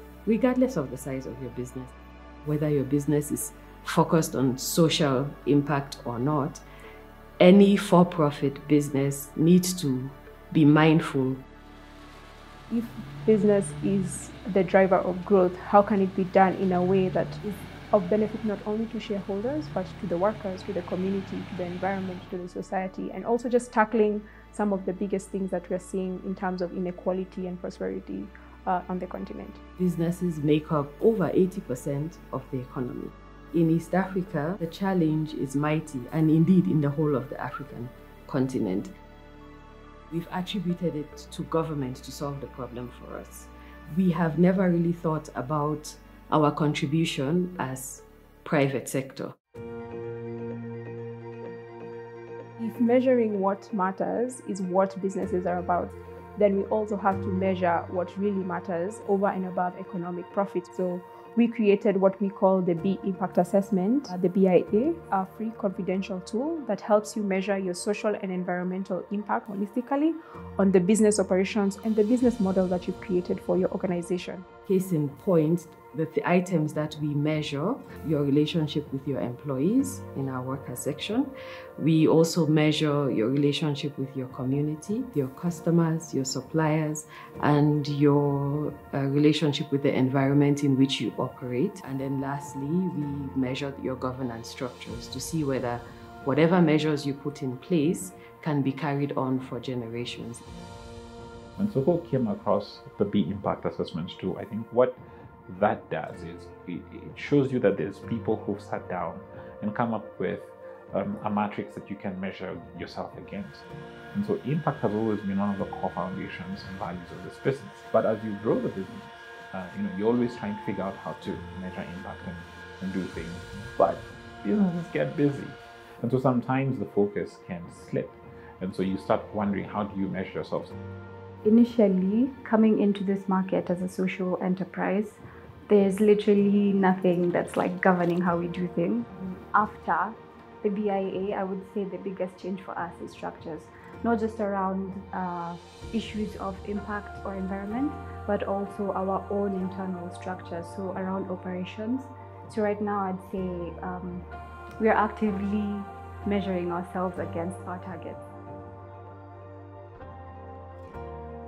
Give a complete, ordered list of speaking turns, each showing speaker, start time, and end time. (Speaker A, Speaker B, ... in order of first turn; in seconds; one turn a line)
Speaker A: 0.3-6.6
Speaker A: 7.4-11.4
Speaker B: 12.7-29.6
Speaker A: 29.8-38.9
Speaker A: 40.1-49.4
Speaker B: 52.6-74.4
Speaker A: 74.7-100.5
Speaker C: 101.6-130.7
Speaker D: 131.4-154.3
Speaker D: 154.8-158.2